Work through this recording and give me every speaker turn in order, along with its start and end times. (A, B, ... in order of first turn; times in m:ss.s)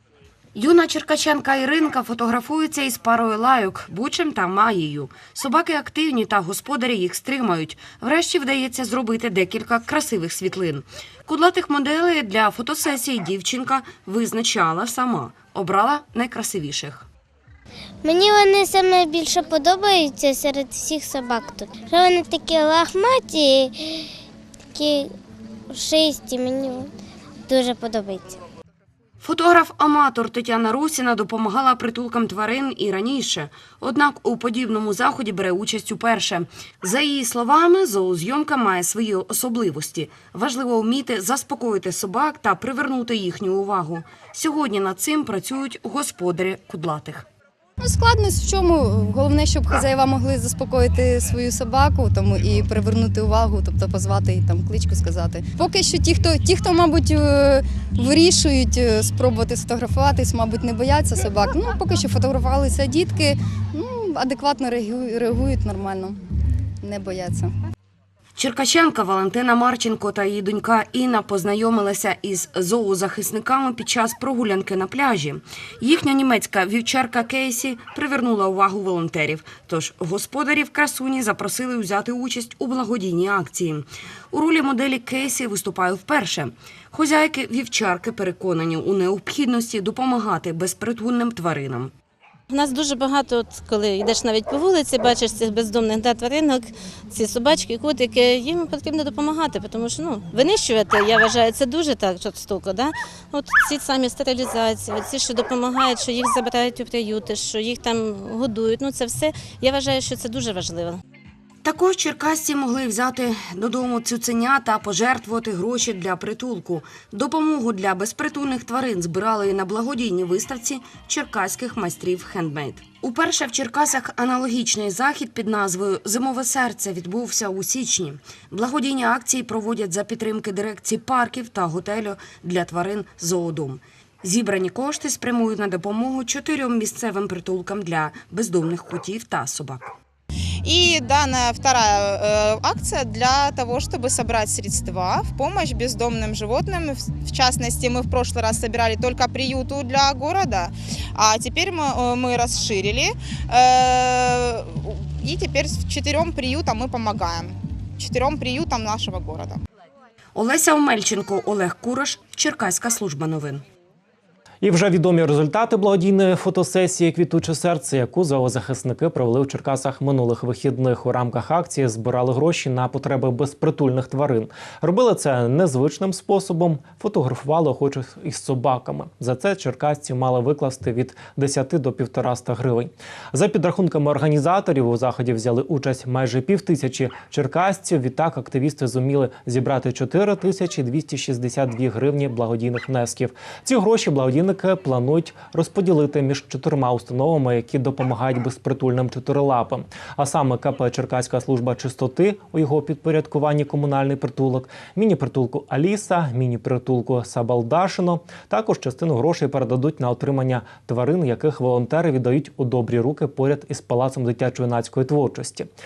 0:00.5-0:17.1 A
0:18.0-0:24.1 B
0:24.7-0:25.1 B
0:25.7-0:26.9 B
0:27.5-0:28.4 B
0:29.2-0:47.2 A
0:47.8-1:06.2 C
1:06.8-1:07.5 C
1:08.4-1:31.9 A
1:32.5-1:51.0 D
1:51.6-2:20.0 A
2:20.6-2:39.6 E
2:40.3-2:43.6 A
2:44.6-3:35.7 F